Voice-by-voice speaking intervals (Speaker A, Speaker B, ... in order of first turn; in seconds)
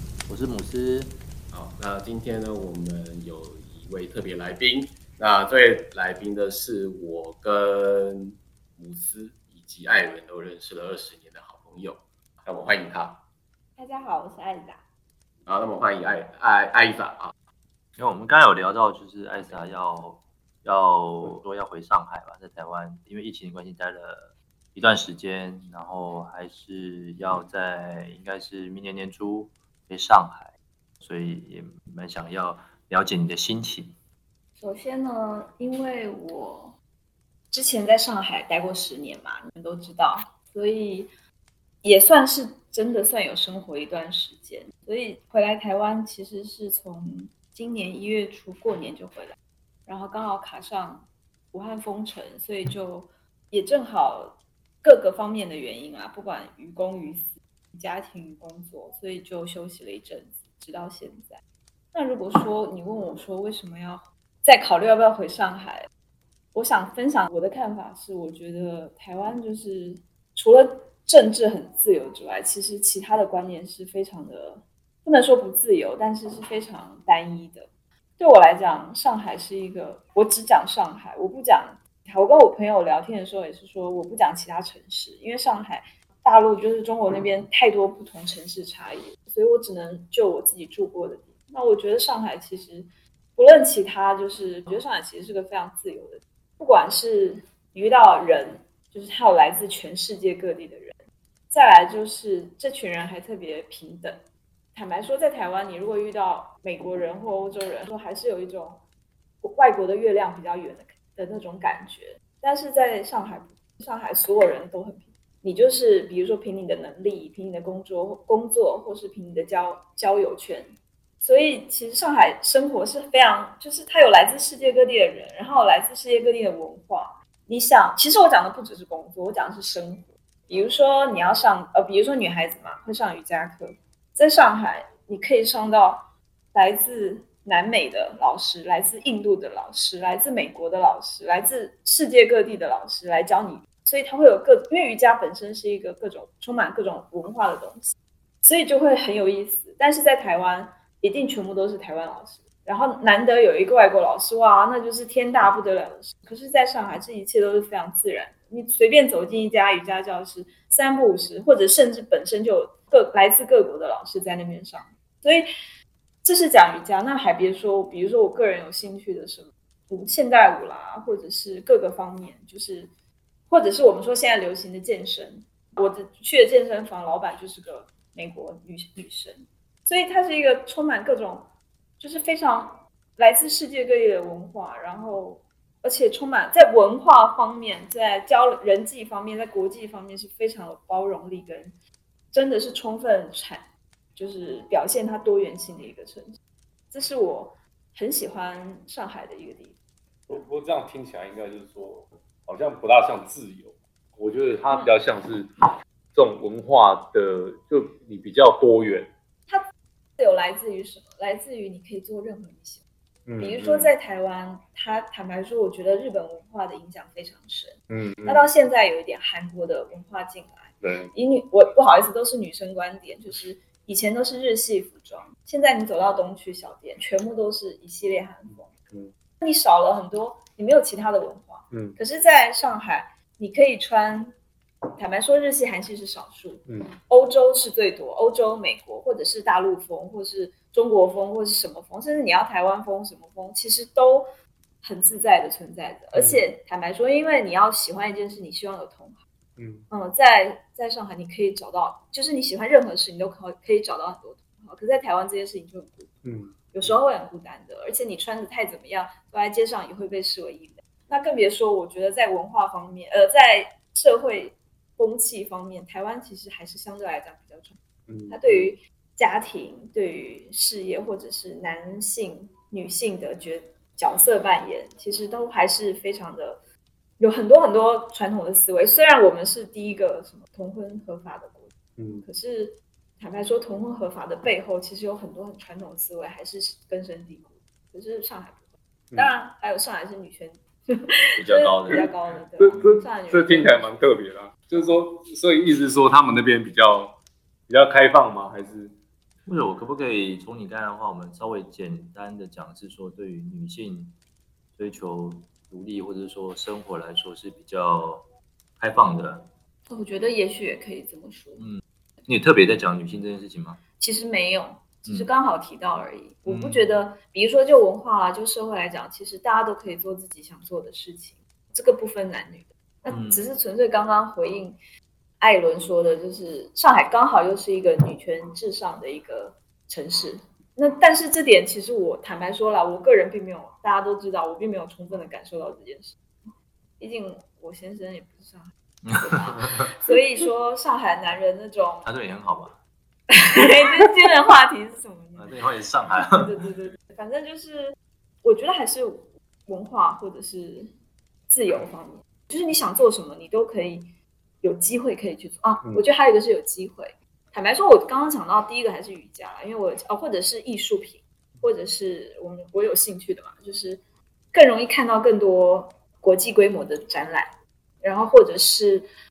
Speaker A: 0.3-1.2, 18.0-34.0, 291.4-292.1, 292.7-293.0, 299.5-304.2, 304.8-308.3, 308.8-309.5, 311.6-313.8, 342.0-342.8, 345.4-346.5
Speaker B: 1.5-13.2, 15.5-17.3
Speaker C: 13.8-14.9, 34.6-36.8, 37.5-41.1, 41.8-49.4, 49.9-61.4, 61.9-65.9, 66.5-101.0, 101.5-108.8, 109.4-165.5, 166.2-172.9, 173.5-191.8, 192.3-196.4, 196.9-199.8, 210.2-212.8, 213.4-228.7, 229.4-234.3, 235.0-244.3, 244.8-249.2, 249.9-256.1, 256.7-267.8, 268.3-276.6, 277.2-281.7, 282.2-293.9, 309.9-311.7, 314.0-324.8, 325.4-336.2, 337.0-342.1, 343.3-345.5, 346.2-350.9, 351.5-354.1, 354.6-364.0, 364.5-367.5, 368.0-369.1
Speaker D: 200.3-205.5, 206.1-209.1, 213.3-213.9, 217.9-218.4, 220.8-221.1, 228.5-229.1, 231.7-232.0, 236.7-236.9, 246.2-246.4, 249.6-249.9, 256.2-257.0, 268.1-268.7, 282.0-282.3, 291.9-298.9, 316.5-316.8